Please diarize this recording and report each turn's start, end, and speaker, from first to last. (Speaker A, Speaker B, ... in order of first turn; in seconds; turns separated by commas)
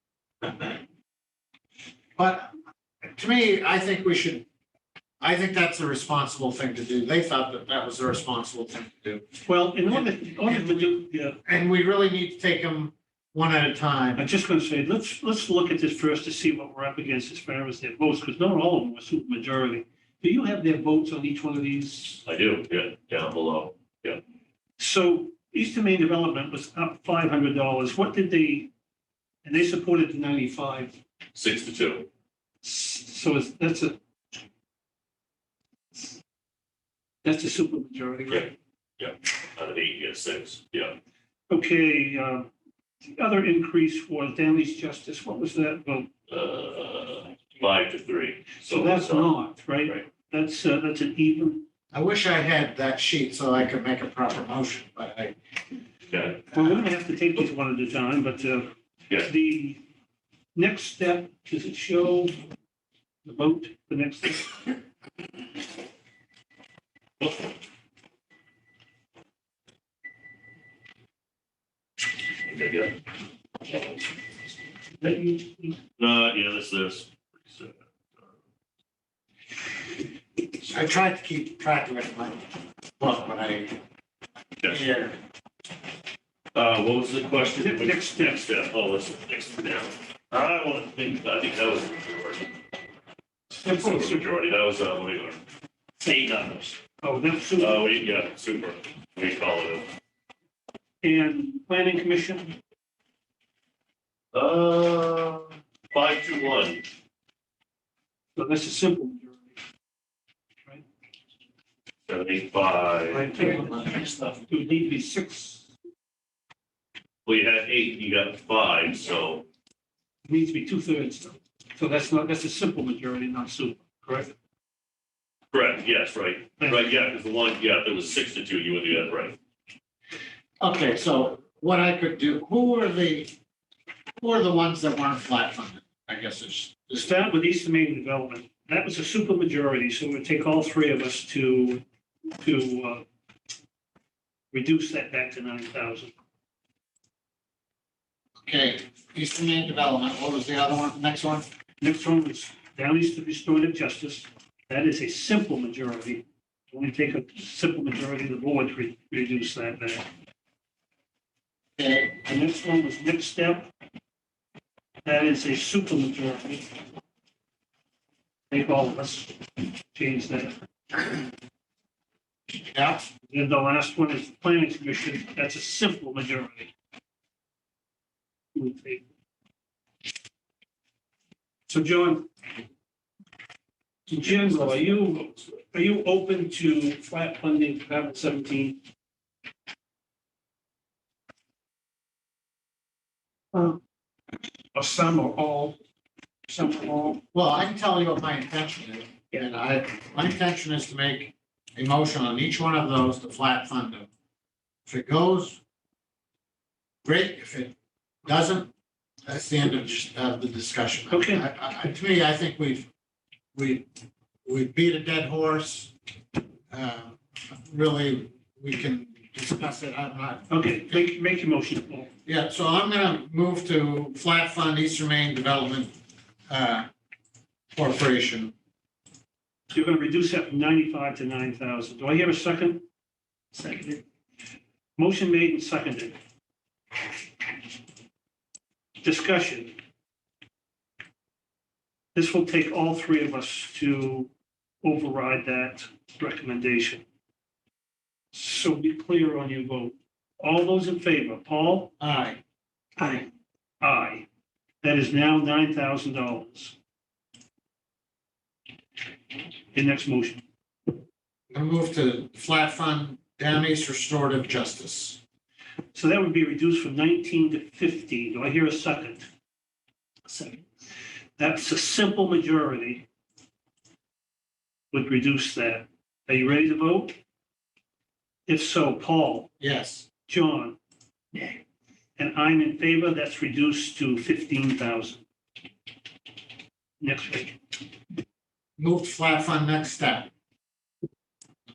Speaker A: 0.5-0.7, Speaker A: 2.2-2.5, Speaker A: 3.1-4.5, Speaker A: 5.2-9.2, Speaker B: 9.4-11.4, Speaker A: 10.5-10.9, Speaker A: 11.4-14.3, Speaker B: 14.2-22.2, Speaker C: 22.2-24.2, Speaker B: 24.8-28.7, Speaker B: 29.4-31.0, Speaker C: 31.3-32.1, Speaker B: 32.6-34.0, Speaker B: 37.2-38.5, Speaker C: 38.3-41.0, Speaker B: 41.5-42.5, Speaker B: 43.0-46.1, Speaker C: 46.3-49.3, Speaker B: 48.7-51.6, Speaker A: 51.9-55.3, Speaker C: 56.1-56.4, Speaker B: 56.5-58.7, Speaker B: 59.2-59.8, Speaker B: 60.5-62.3, Speaker B: 63.2-64.7, Speaker C: 72.4-73.0, Speaker C: 73.7-73.9, Speaker C: 75.0-75.4, Speaker B: 75.0-75.5, Speaker C: 76.0-78.3, Speaker A: 80.7-82.4, Speaker A: 83.0-83.7, Speaker A: 84.7-85.2, Speaker C: 86.5-92.5, Speaker B: 87.5-88.4, Speaker B: 93.5-94.2, Speaker C: 93.7-95.4, Speaker C: 96.0-96.8, Speaker B: 97.0-97.9, Speaker C: 97.6-99.9, Speaker B: 101.0-102.5, Speaker C: 104.3-106.8, Speaker B: 108.3-109.4, Speaker C: 112.1-113.5, Speaker B: 113.2-113.9, Speaker A: 113.3-114.3, Speaker B: 114.5-115.7, Speaker C: 117.2-119.4, Speaker B: 120.3-124.3, Speaker C: 125.5-129.4, Speaker B: 126.6-126.9, Speaker A: 130.6-133.3, Speaker A: 134.2-137.1, Speaker B: 136.9-141.8, Speaker B: 142.4-143.0, Speaker B: 144.5-146.1, Speaker A: 148.4-151.4, Speaker B: 151.8-160.1, Speaker A: 161.8-162.2, Speaker B: 162.2-163.7, Speaker B: 165.0-166.6, Speaker B: 168.5-169.4, Speaker B: 169.9-170.5, Speaker A: 172.6-173.1, Speaker B: 173.3-176.7, Speaker B: 178.5-179.1, Speaker B: 181.7-182.3, Speaker B: 184.1-188.8, Speaker C: 184.2-185.5, Speaker B: 193.5-193.8, Speaker B: 194.7-195.8, Speaker B: 196.5-197.2, Speaker A: 197.3-204.1, Speaker A: 204.8-205.6, Speaker A: 207.0-207.7, Speaker A: 208.2-208.7, Speaker A: 209.3-212.9, Speaker B: 211.1-211.4, Speaker A: 213.5-213.8, Speaker A: 214.4-215.9, Speaker A: 216.7-220.8, Speaker B: 220.5-222.1, Speaker A: 222.2-225.9, Speaker A: 226.5-226.9, Speaker A: 227.7-228.5, Speaker B: 229.7-232.8, Speaker B: 233.6-233.9, Speaker B: 235.0-236.2, Speaker B: 239.0-239.7, Speaker B: 242.1-244.3, Speaker B: 244.8-247.0, Speaker B: 248.3-251.9, Speaker A: 252.0-252.4, Speaker B: 253.8-254.2, Speaker B: 254.8-256.7, Speaker B: 259.7-260.4, Speaker A: 261.5-265.2, Speaker B: 265.9-269.3, Speaker B: 271.4-273.0, Speaker B: 274.9-277.1, Speaker B: 278.5-279.5, Speaker A: 279.6-280.1, Speaker B: 280.3-280.8, Speaker B: 282.2-285.2, Speaker B: 287.0-287.6, Speaker A: 288.8-290.3